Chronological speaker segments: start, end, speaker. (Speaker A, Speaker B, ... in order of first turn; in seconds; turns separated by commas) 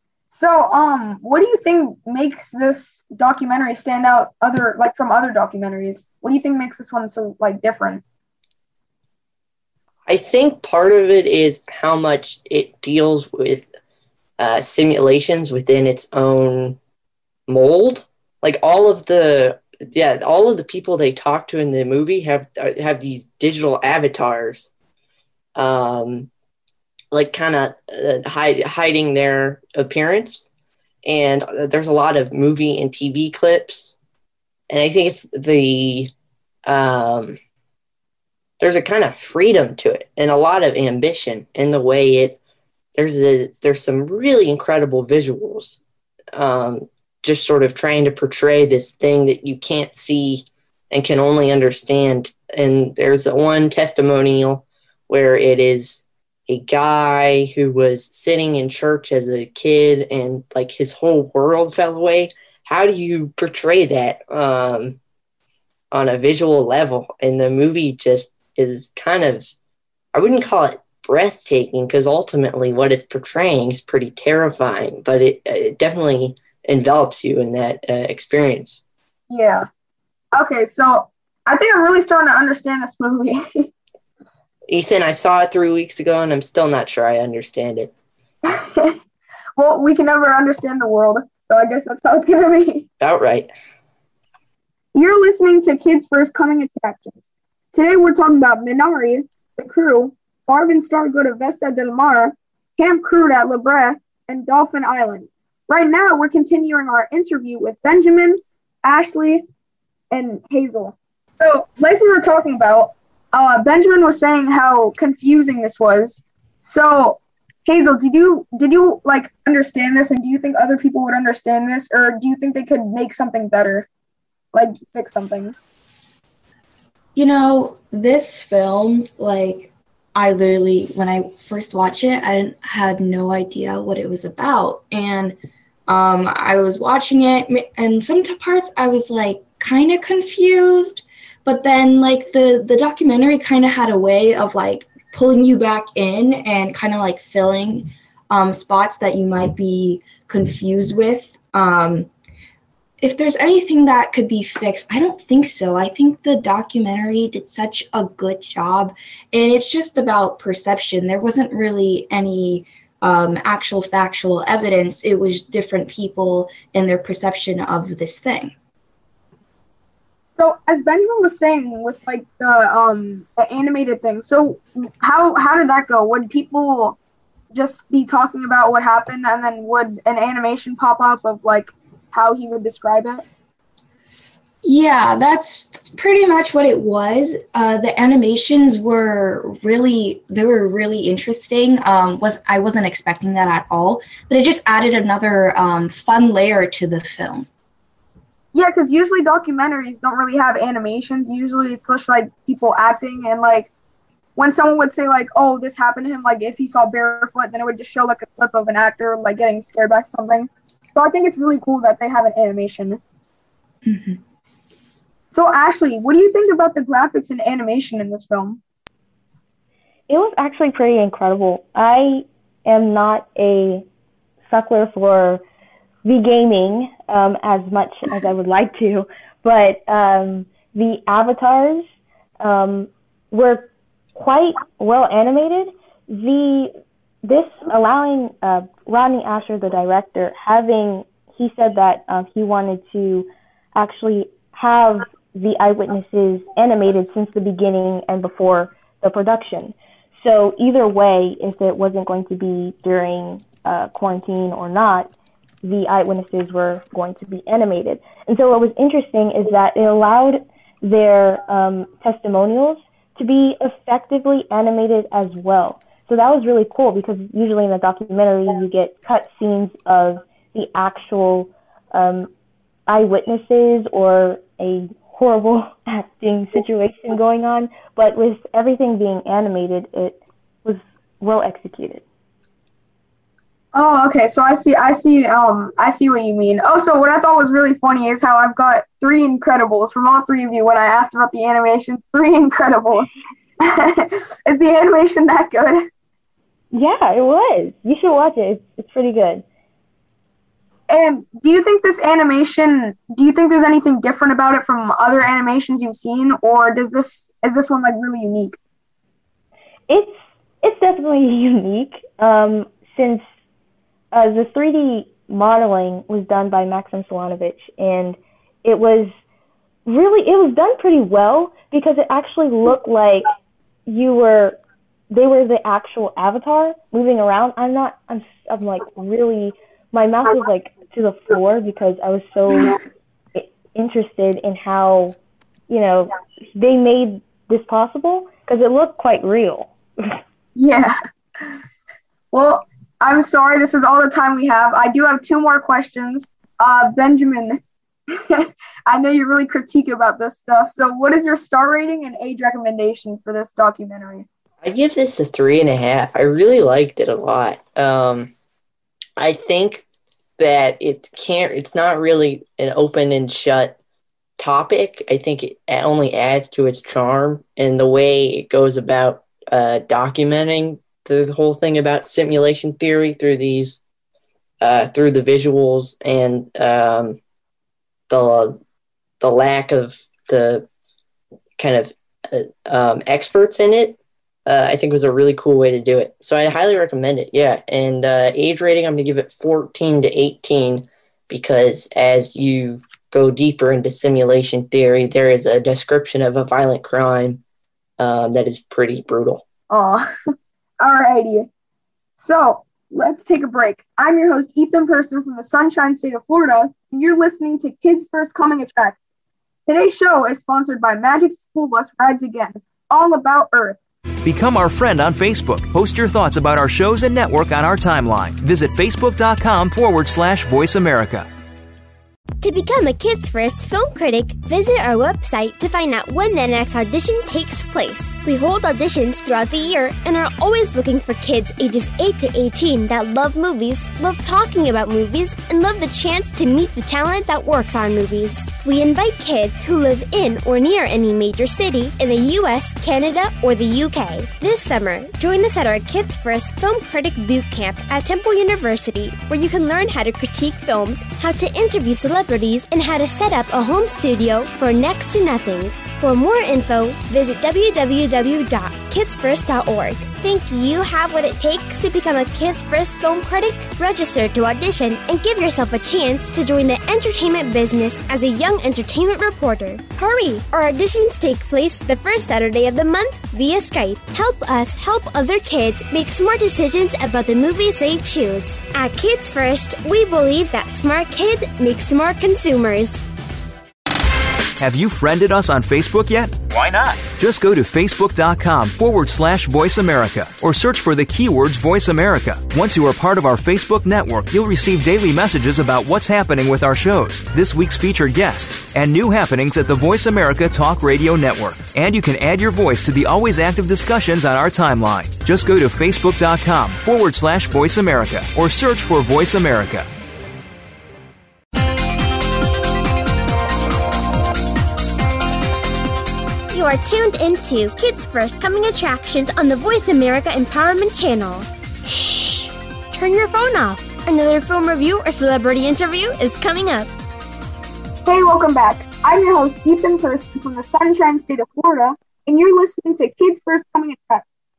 Speaker A: 0.3-8.0, Speaker B: 10.1-13.7, Speaker B: 14.4-16.8, Speaker B: 17.5-24.7, Speaker B: 25.6-26.3, Speaker B: 27.1-30.5, Speaker B: 31.0-34.0, Speaker B: 34.7-36.1, Speaker B: 36.6-37.4, Speaker B: 38.6-42.4, Speaker B: 42.9-45.8, Speaker B: 46.3-65.0, Speaker B: 65.9-69.5, Speaker B: 70.1-78.8, Speaker A: 79.3-79.6, Speaker A: 80.3-83.7, Speaker B: 84.7-87.9, Speaker A: 88.5-89.0, Speaker A: 89.5-92.8, Speaker B: 93.0-93.5, Speaker A: 94.9-109.5, Speaker A: 110.1-123.9, Speaker A: 124.5-125.5, Speaker C: 127.1-152.1, Speaker C: 153.0-168.5, Speaker A: 170.4-177.0, Speaker A: 177.5-183.2, Speaker C: 184.6-197.5, Speaker A: 198.5-203.7, Speaker A: 204.3-213.0, Speaker C: 213.8-214.2, Speaker A: 215.3-218.6, Speaker D: 220.1-223.8, Speaker D: 224.5-225.4, Speaker D: 226.0-231.9, Speaker D: 232.4-236.7, Speaker D: 237.2-255.1, Speaker D: 255.6-272.3, Speaker D: 272.9-282.0, Speaker A: 283.7-295.9, Speaker D: 296.7-299.4, Speaker A: 300.9-308.6, Speaker D: 309.9-313.2, Speaker D: 314.1-319.1, Speaker D: 319.9-323.3, Speaker D: 323.9-324.6, Speaker D: 325.1-332.8, Speaker D: 333.4-335.2, Speaker D: 335.7-339.7, Speaker A: 340.6-341.0, Speaker A: 342.3-347.6, Speaker A: 348.1-354.2, Speaker B: 354.6-358.3, Speaker B: 359.2-359.8, Speaker B: 360.4-363.8, Speaker B: 364.4-373.8, Speaker B: 374.6-377.2, Speaker B: 378.1-378.6, Speaker B: 379.2-380.7, Speaker B: 381.6-397.4, Speaker B: 398.0-399.4, Speaker A: 399.7-400.1, Speaker A: 400.8-401.5, Speaker A: 402.2-409.0, Speaker A: 409.7-413.8, Speaker E: 414.2-421.3, Speaker F: 422.4-483.0, Speaker E: 484.6-509.9, Speaker F: 516.5-526.9, Speaker A: 528.0-534.2